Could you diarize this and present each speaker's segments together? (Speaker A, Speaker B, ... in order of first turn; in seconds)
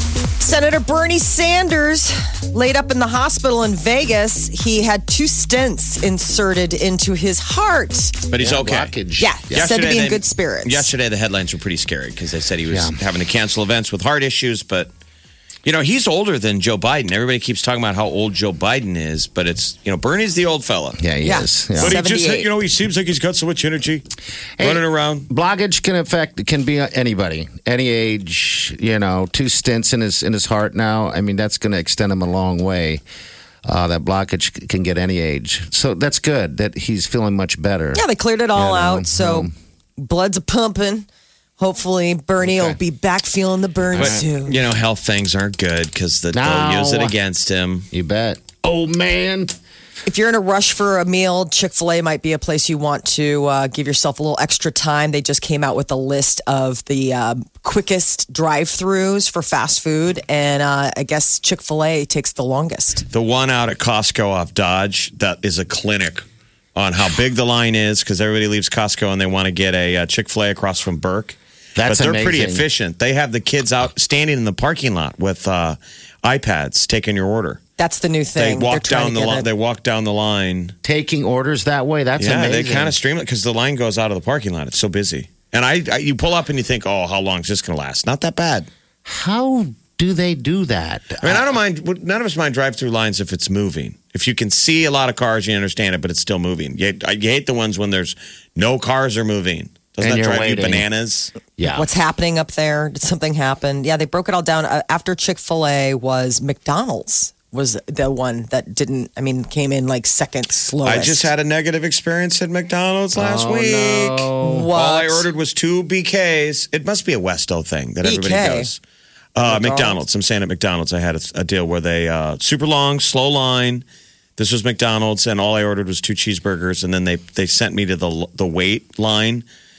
Speaker A: 0.4-8.2, 9.2-10.9, 21.2-22.5, 37.9-41.1, 41.6-44.6, 50.1-63.1, 77.8-79.5, 101.6-111.3, 114.4-115.3, 118.0-118.7, 119.4-120.0
Speaker B: 8.3-8.9, 9.5-14.9, 15.6-21.0, 21.8-24.1, 24.6-25.3, 44.0-47.9, 63.1-77.6, 78.4-80.8, 82.2-88.7, 91.2-101.3, 110.8-118.8, 119.4-123.9, 124.4-129.5
Speaker C: 8.4-9.8, 12.7-13.0, 21.0-22.0, 24.6-33.0, 33.6-39.5, 42.4-42.8, 43.9-44.2, 46.3-47.1, 47.9-49.6, 71.8-72.7, 80.8-83.0, 89.1-91.6, 100.0-100.9, 101.6-101.9, 113.2-114.7